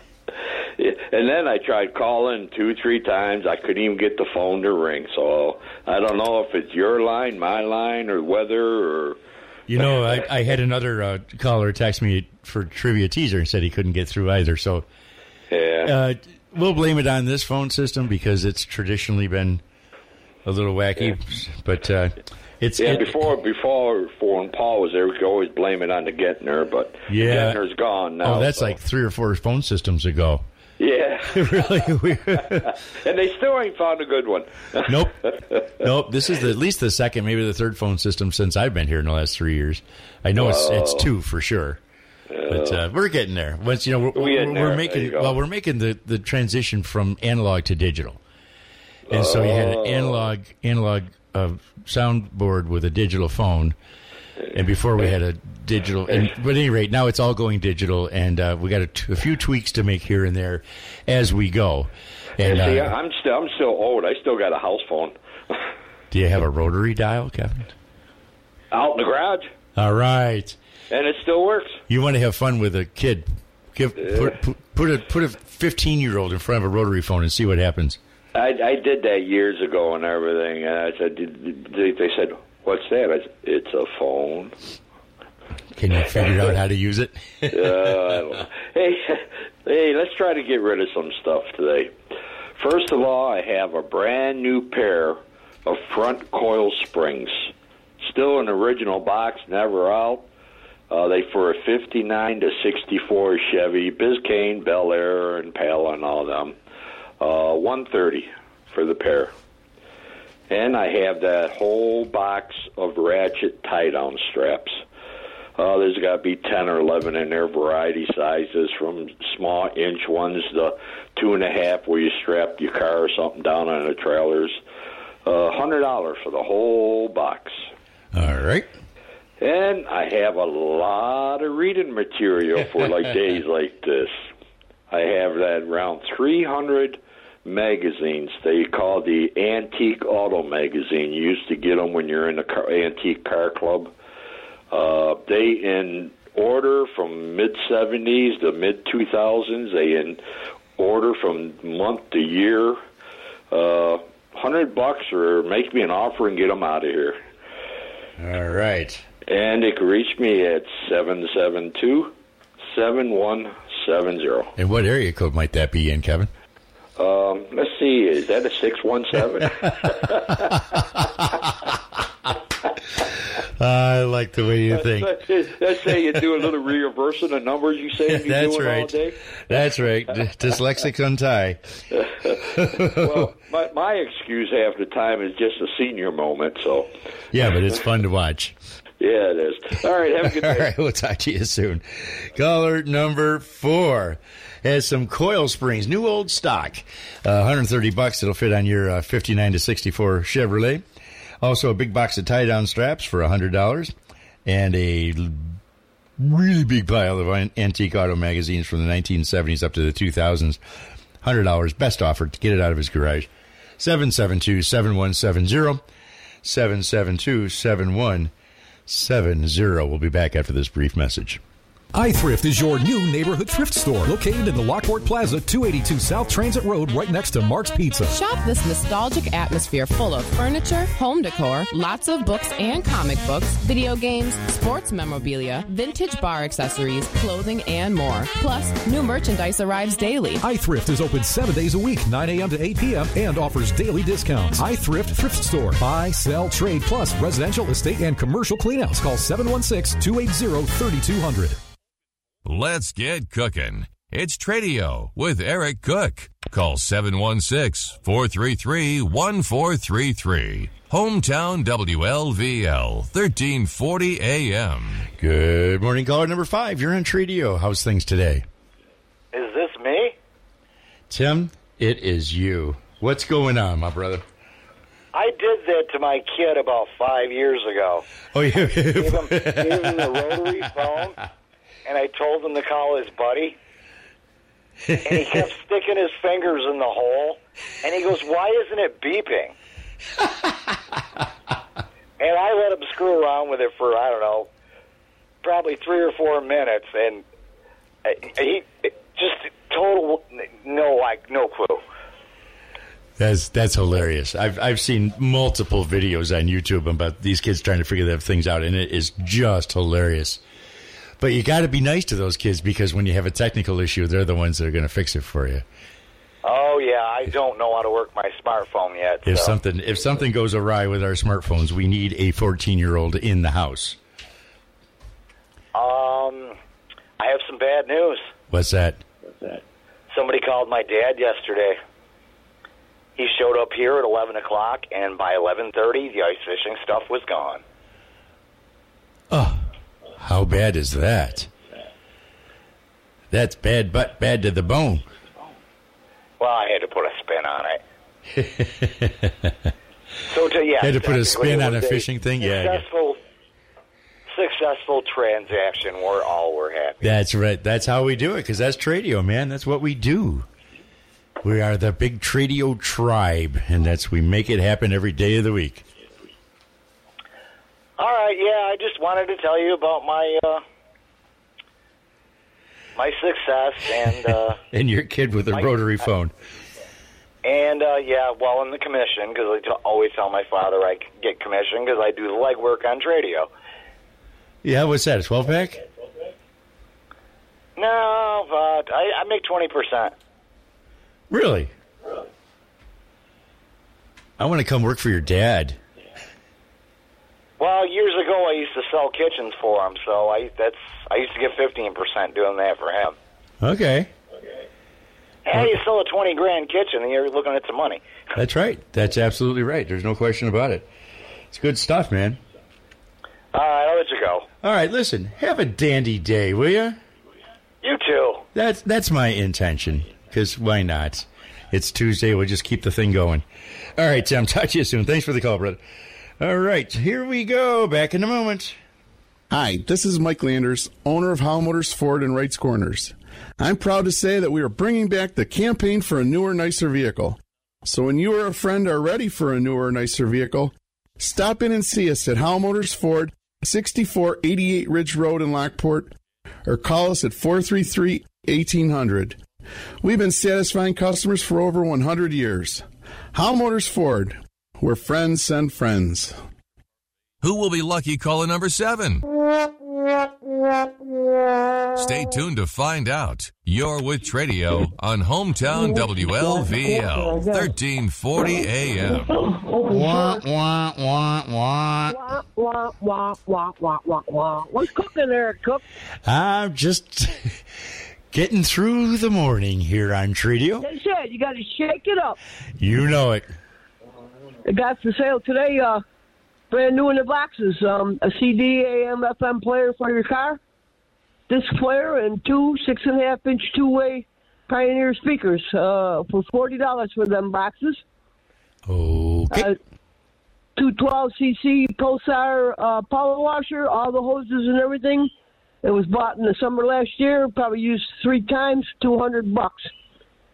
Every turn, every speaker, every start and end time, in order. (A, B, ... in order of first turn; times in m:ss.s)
0:00.8-0:09.2 A
0:09.7-0:14.8 B
0:15.5-0:15.9 A
0:15.8-0:19.6 B
0:20.4-0:23.1 B
0:22.8-0:28.8 A
0:27.1-0:27.6 B
0:28.2-0:30.4 B
0:30.8-0:35.1 A
0:31.3-0:32.7 B
0:34.9-0:35.2 B
0:35.8-0:41.8 B
0:40.3-0:41.1 A
0:42.3-0:42.8 A
0:42.5-0:48.2 B
0:44.1-0:45.4 A
0:49.1-0:50.3 A
0:49.1-0:53.8 B
0:54.4-0:55.1 A
0:54.5-1:02.9 B
1:02.4-1:05.1 A
1:06.1-1:07.7 B
1:08.7-1:09.5 A
1:09.8-1:10.6 B
1:10.9-1:11.8 A
1:11.9-1:18.0 B
1:14.0-1:14.3 A
1:18.3-1:24.5 A
1:25.8-1:27.9 B
1:27.5-1:31.9 A
1:32.6-1:40.2 A
1:40.9-1:46.6 A
1:47.2-1:49.3 A
1:50.5-1:54.8 A
1:55.6-2:04.6 A
2:05.2-2:07.6 A
2:08.1-2:08.7 B
2:09.4-2:14.2 A
2:14.9-2:23.9 A
2:24.7-2:30.2 A
2:30.8-2:32.8 A
2:33.5-2:37.2 A
2:38.2-2:39.0 B
2:39.3-2:42.1 A
2:42.7-2:44.5 A
2:44.6-2:46.3 B
2:47.0-2:50.6 A
2:50.3-2:51.2 B
2:53.6-2:55.1 B
2:54.7-3:00.3 A
2:58.1-2:59.0 B
2:59.5-3:01.6 B
3:01.9-3:06.9 A
3:02.5-3:03.3 B
3:07.3-3:08.5 B
3:09.0-3:10.7 A
3:10.2-3:20.8 B
3:21.4-3:23.9 B
3:24.4-3:25.6 B
3:26.2-3:30.6 B
3:31.2-3:35.8 B
3:36.4-3:38.3 B
3:38.9-3:41.4 B
3:41.9-3:48.2 C
3:48.1-4:00.4 D
4:00.4-4:11.6 C
4:12.4-4:25.1 E
4:25.2-4:28.4 B
4:29.3-4:30.1 F
4:31.1-4:34.2 B
4:35.1-4:38.0 F
4:38.3-4:40.7 B
4:38.9-4:41.2 F
4:41.8-4:43.6 F
4:44.9-4:45.5 B
4:45.0-4:49.5 F
4:52.2-4:54.5 F
4:55.4-4:57.2 F
4:58.0-5:01.8 F
5:03.2-5:10.4 B
5:11.2-5:15.6 B
5:16.4-5:19.5 F
5:19.2-5:24.0 B
5:25.7-5:26.6 F
5:27.2-5:28.2 F
5:28.5-5:29.0 B
5:30.1-5:31.8 F
5:33.2-5:37.6 F
5:39.3-5:39.7 B
5:40.2-5:41.5 B
5:43.3-5:45.1 B
5:46.4-5:47.8 F
5:48.3-5:49.7 B
5:50.3-5:53.2 F
5:50.8-5:52.8 B
5:54.3-5:57.1 F
5:57.0-6:00.4 B
6:01.4-6:05.8 B
6:08.0-6:10.6 F
6:13.0-6:14.6 F
6:14.7-6:16.3 B
6:17.4-6:23.5 F
6:24.6-6:25.8 B
6:27.8-6:30.1 F
6:31.3-6:31.7 B
6:34.4-6:35.8 B
6:37.6-6:43.1 F
6:43.6-6:44.1 B
6:45.4-6:48.0 F
6:48.4-6:50.9 B
6:51.5-6:52.4 B
6:53.5-6:54.4 F
6:54.6-6:57.0 B
6:57.8-6:58.4 F
6:58.5-7:03.4 B
7:04.0-7:05.8 B
7:06.4-7:08.8 B
7:09.5-7:26.1 G
7:26.6-7:29.4 G
7:30.0-7:36.4 G
7:37.4-7:39.2 E
7:41.9-7:49.4 E
7:47.0-7:47.6 H
7:49.4-7:50.4 H
7:49.8-7:52.2 B
7:52.1-7:55.8 H
7:56.2-7:57.6 B
7:58.3-8:00.8 B
8:00.8-8:02.4 H
8:02.8-8:03.4 B
8:04.6-8:06.0 H
8:06.7-8:10.6 H
8:11.5-8:18.0 H
8:18.9-8:19.7 B
8:20.8-8:25.3 H
8:25.8-8:29.9 H